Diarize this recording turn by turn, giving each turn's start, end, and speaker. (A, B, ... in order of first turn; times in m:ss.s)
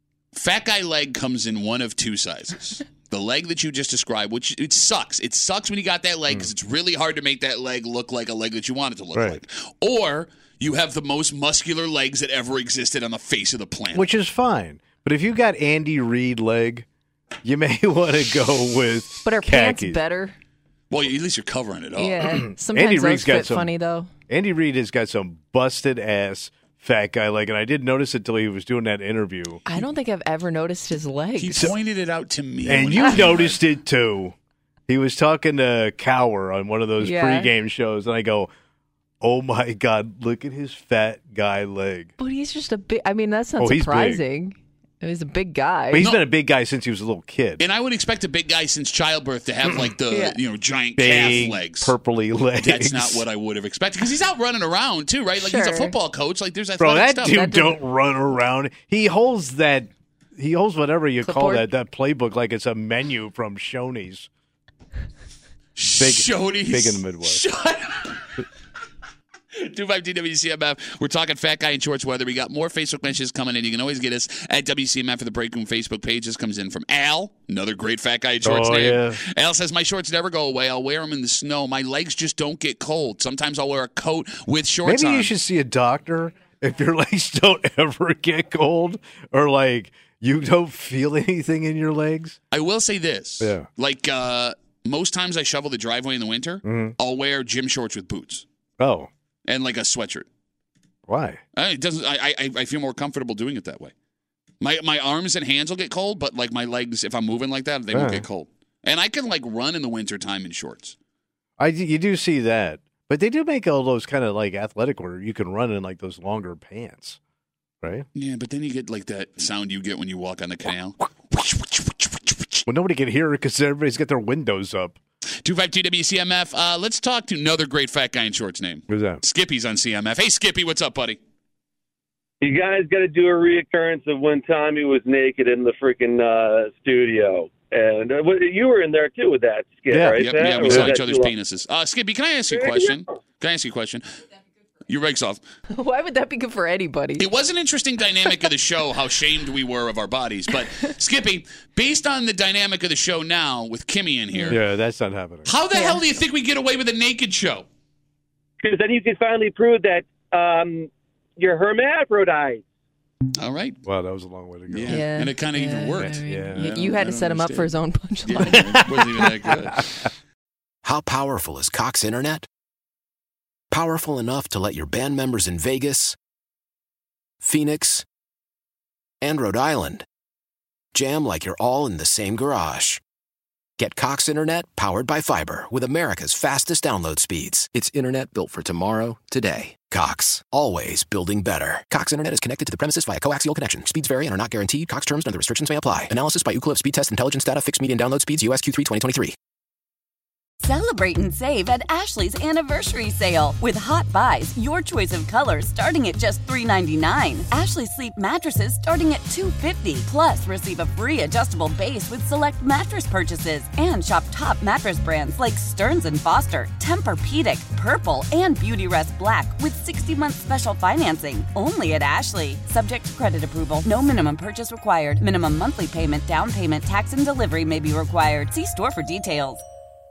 0:00.3-0:14.1 A
0:09.1-0:09.4 B
0:13.9-0:16.9 B
0:17.4-0:20.0 B
0:19.2-0:20.4 C
0:20.9-0:22.5 A
0:22.0-0:24.1 C
0:22.6-0:23.7 B
0:24.3-0:29.6 B
0:29.7-0:31.7 C
0:31.4-0:33.6 A
0:32.6-0:34.4 B
0:34.9-0:38.5 B
0:37.0-0:37.5 C
0:39.2-0:42.1 B
0:42.2-0:46.1 C
0:43.6-0:44.2 B
0:45.9-0:47.6 B
0:46.0-0:46.3 A
0:47.6-0:51.9 A
0:50.1-0:50.4 C
0:51.0-0:53.3 B
0:52.6-0:57.6 A
0:55.4-0:56.0 C
0:56.8-1:04.3 B
0:57.3-0:57.8 C
1:01.2-1:01.7 C
1:05.8-1:08.4 A
1:06.0-1:07.4 B
1:09.6-1:25.3 A
1:18.4-1:19.2 B
1:24.8-1:32.4 B
1:32.5-1:38.5 A
1:33.4-1:33.7 B
1:36.6-1:37.0 B
1:38.8-1:39.1 B
1:39.5-1:40.3 A
1:41.1-1:41.4 B
1:41.5-1:43.9 A
1:44.6-1:51.0 A
1:47.9-1:48.3 B
1:51.6-1:57.2 B
1:58.2-2:02.6 A
2:02.7-2:05.0 B
2:05.4-2:11.2 A
2:08.9-2:09.2 B
2:12.4-2:21.3 D
2:19.9-2:20.9 B
2:20.2-2:24.0 A
2:22.5-2:23.0 D
2:24.9-2:25.4 A
2:25.7-2:27.3 C
2:27.2-2:34.6 A
2:34.5-2:35.5 B
2:35.5-2:37.7 A
2:35.7-2:36.0 C
2:38.6-2:42.6 D
2:43.4-2:43.8 A
2:43.8-2:45.1 B
2:44.7-2:50.0 A
2:44.9-2:48.9 C
2:46.0-2:46.7 B
2:50.8-2:52.5 E
2:53.7-2:56.2 E
2:57.4-2:58.1 E
2:59.2-3:00.1 E
3:00.9-3:03.0 E
3:03.8-3:19.4 E
3:20.6-3:49.6 F